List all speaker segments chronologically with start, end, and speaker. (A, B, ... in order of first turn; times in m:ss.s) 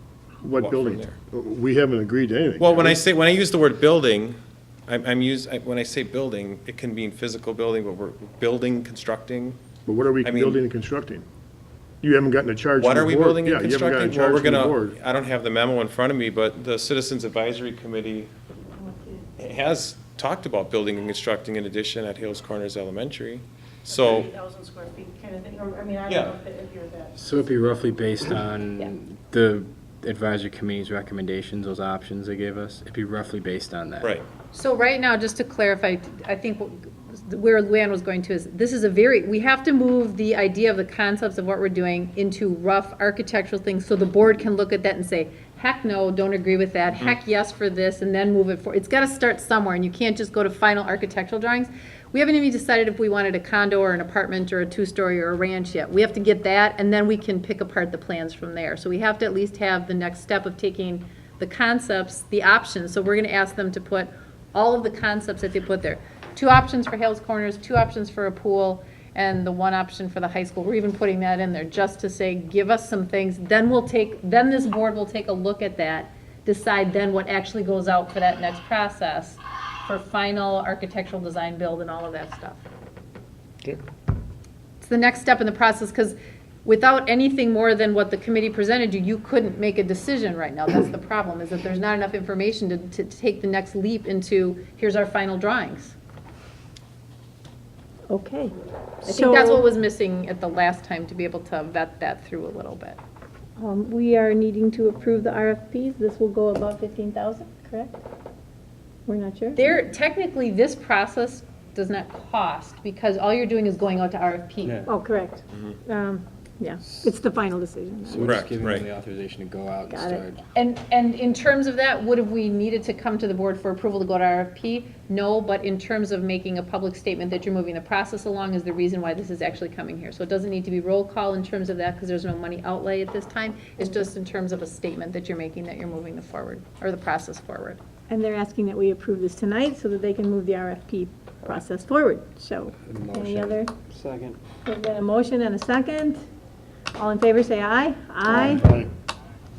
0:00.4-0:03.0 A
0:00.6-0:01.2 B
0:02.6-0:09.6 B
0:09.8-0:11.2 A
0:10.2-0:10.6 B
0:12.0-0:15.0 A
0:12.8-0:18.3 B
0:19.4-0:24.3 B
0:23.9-0:27.1 C
0:26.1-0:26.4 B
0:27.2-0:34.1 D
0:34.0-0:34.3 B
0:34.5-1:22.6 E
1:24.8-1:36.0 E
1:38.1-1:39.6 F
1:39.0-1:43.0 E
1:43.6-1:48.0 F
1:49.0-1:49.6 F
1:49.5-1:54.8 E
1:54.6-1:54.9 D
1:54.8-1:58.3 F
1:55.5-1:55.8 B
1:58.1-2:00.4 D
1:58.2-1:58.9 B
1:59.9-2:00.2 F
2:00.5-2:17.8 E
2:18.1-2:23.7 F
2:22.8-2:24.4 D
2:24.6-2:26.2 F
2:27.0-2:28.7 F
2:28.3-2:28.9 A